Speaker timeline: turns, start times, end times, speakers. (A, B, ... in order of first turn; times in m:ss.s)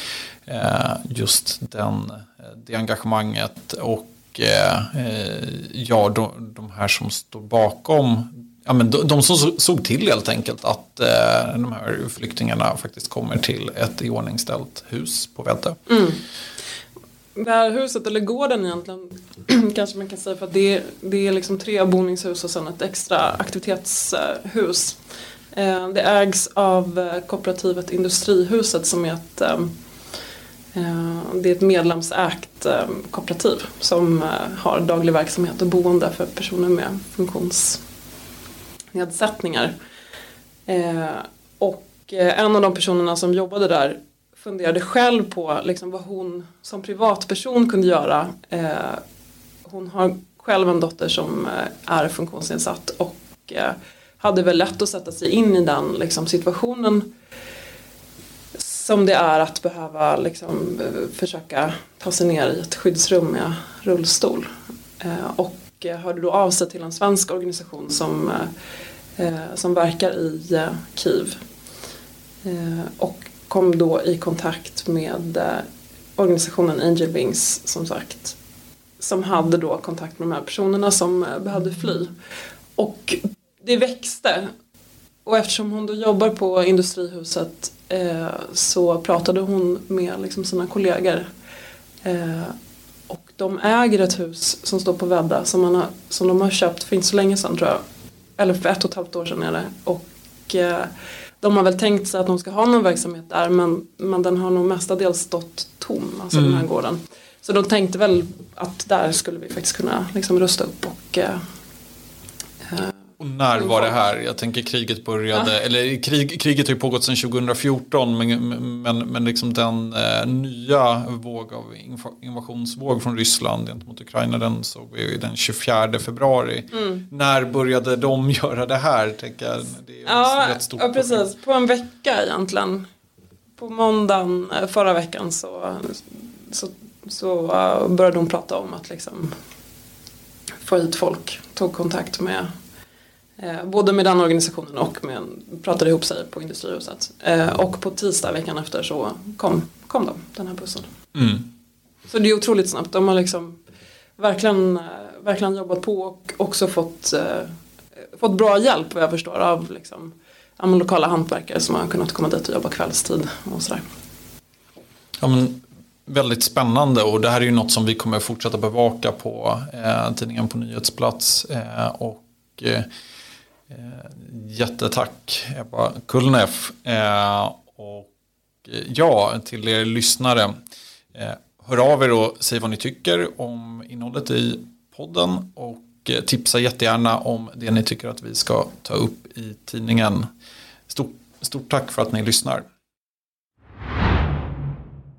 0:00.5-0:15.8 A
0:15.9-0:16.2 B
0:17.4-0:25.0 B
0:25.5-0:29.7 B
0:30.7-0:37.8 B
0:38.9-0:39.7 B
0:40.7-0:49.0 B
0:49.6-0:57.1 B
0:58.6-1:04.5 B
1:05.0-1:08.5 B
1:09.2-1:11.4 B
1:12.4-1:15.6 B
1:16.2-1:18.4 B
1:19.0-1:22.1 B
1:22.8-1:24.5 B
1:25.2-1:31.3 B
1:32.0-1:32.5 B
1:33.1-1:37.8 B
1:38.4-1:40.9 B
1:41.4-1:51.4 B
1:46.4-1:46.6 A
1:52.6-1:53.0 B
1:53.2-2:11.3 A
1:53.6-1:53.9 B
2:06.7-2:07.0 B
2:10.0-2:12.9 B
2:13.6-2:19.3 B
2:20.6-2:22.5 B
2:23.4-2:30.9 B
2:31.2-2:31.5 A
2:32.1-2:33.6 B
2:34.2-2:37.5 B
2:38.2-2:43.8 B
2:45.2-2:52.9 A
2:53.7-2:58.1 A
2:58.6-3:00.5 A
3:01.2-3:10.3 A
3:10.9-3:12.6 A